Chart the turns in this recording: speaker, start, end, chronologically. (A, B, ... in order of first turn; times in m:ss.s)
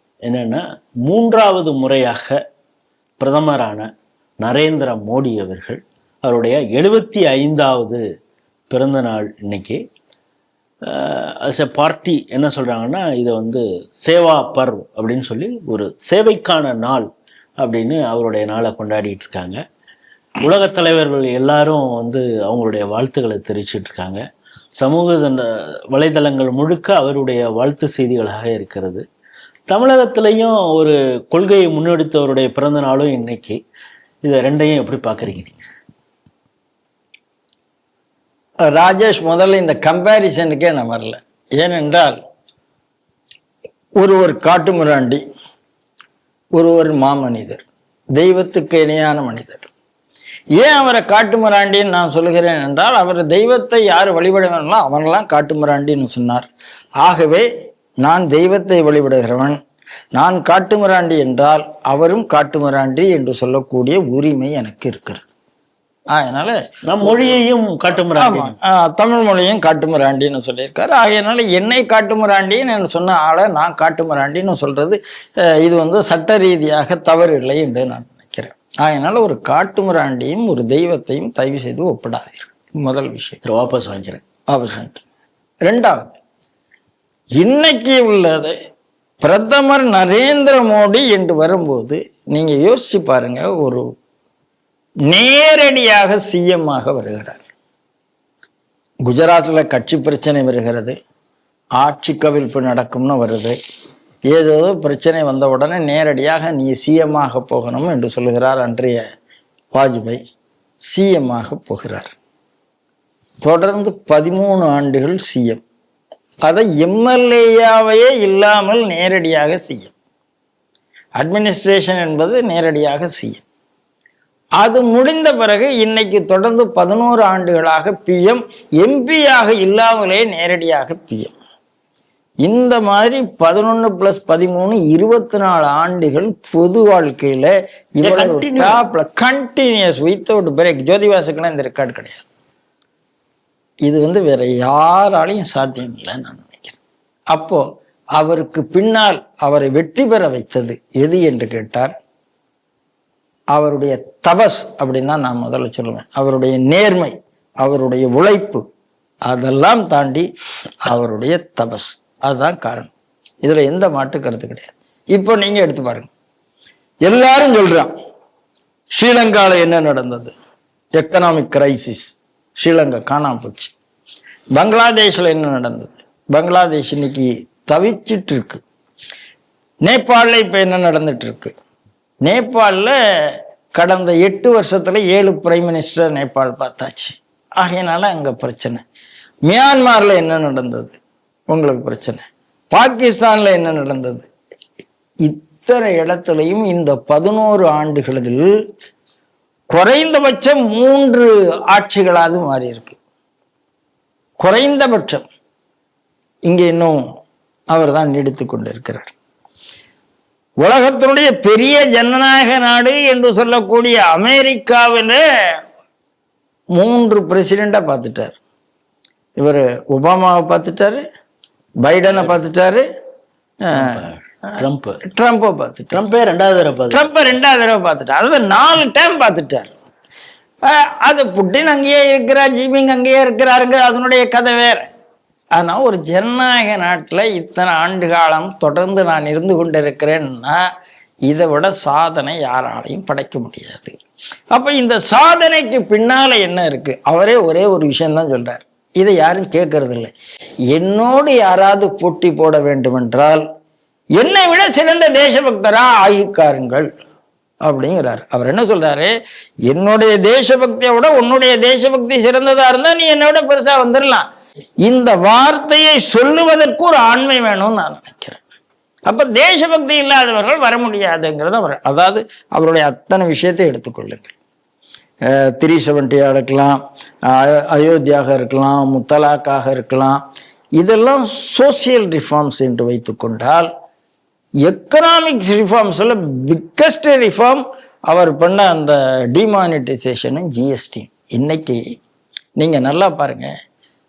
0:00.3-0:02.3 A
0:03.2-0:03.8 A
0:04.4-0:08.0 A
0:08.7-0:09.8 A
0:10.9-0:17.1 A
0:17.6-0:19.6 A
0:20.4-0:24.2 A
0:24.8-0:29.0 A
0:29.7-0:33.6 A
0:34.2-0:35.6 A
0:38.7-0:42.2 B
0:44.0-0:45.2 B
0:46.6-0:47.6 B
0:48.2-0:49.7 B
0:50.6-0:56.4 B
0:57.0-0:57.5 B
0:58.0-0:59.6 B
1:00.2-1:05.3 B
1:06.1-1:07.4 B
1:06.8-1:08.6 A
1:08.2-1:15.0 B
1:15.6-1:23.4 B
1:23.4-1:24.2 A
1:24.5-1:25.0 B
1:25.6-1:26.2 B
1:27.4-1:28.5 B
1:29.2-1:33.8 B
1:35.1-1:37.4 B
1:39.0-1:41.0 B
1:41.8-1:43.6 B
1:44.3-1:49.0 B
1:49.7-1:50.2 B
1:50.9-1:52.1 B
1:53.4-1:55.6 B
1:56.5-1:59.9 B
2:01.2-2:03.4 B
2:04.6-2:11.3 B
2:12.4-2:22.2 B
2:18.0-2:18.8 A
2:23.8-2:26.8 B
2:27.3-2:27.6 B
2:28.2-2:31.9 B
2:33.5-2:38.6 B
2:39.3-2:40.3 B
2:40.8-2:42.9 B
2:43.4-2:46.1 B
2:47.0-2:47.9 B
2:48.9-2:50.4 B
2:51.0-2:53.7 B
2:54.6-2:58.6 B
2:59.8-3:01.5 B
3:02.2-3:08.8 B
3:09.5-3:11.0 B
3:11.5-3:14.3 B
3:15.2-3:18.5 B
3:19.7-3:23.0 B
3:24.4-3:25.3 B
3:26.5-3:27.0 B
3:27.7-3:29.1 B
3:30.6-3:35.2 B
3:36.8-3:38.4 B
3:39.4-3:41.0 B
3:41.8-3:42.8 B
3:42.1-3:42.4 A
3:43.6-3:46.0 B
3:43.7-3:45.0 A
3:45.9-3:47.1 A
3:46.9-3:49.7 B
3:50.6-3:54.9 B
3:55.6-4:00.6 B
4:01.3-4:04.0 B
4:04.5-4:10.1 B
4:10.7-4:13.4 B
4:14.2-4:16.9 B
4:17.7-4:19.1 B
4:19.7-4:24.2 B
4:24.8-4:28.4 B
4:29.1-4:34.3 B
4:35.2-4:40.2 B
4:40.8-4:43.7 B
4:44.7-4:51.8 B
4:52.6-4:53.5 B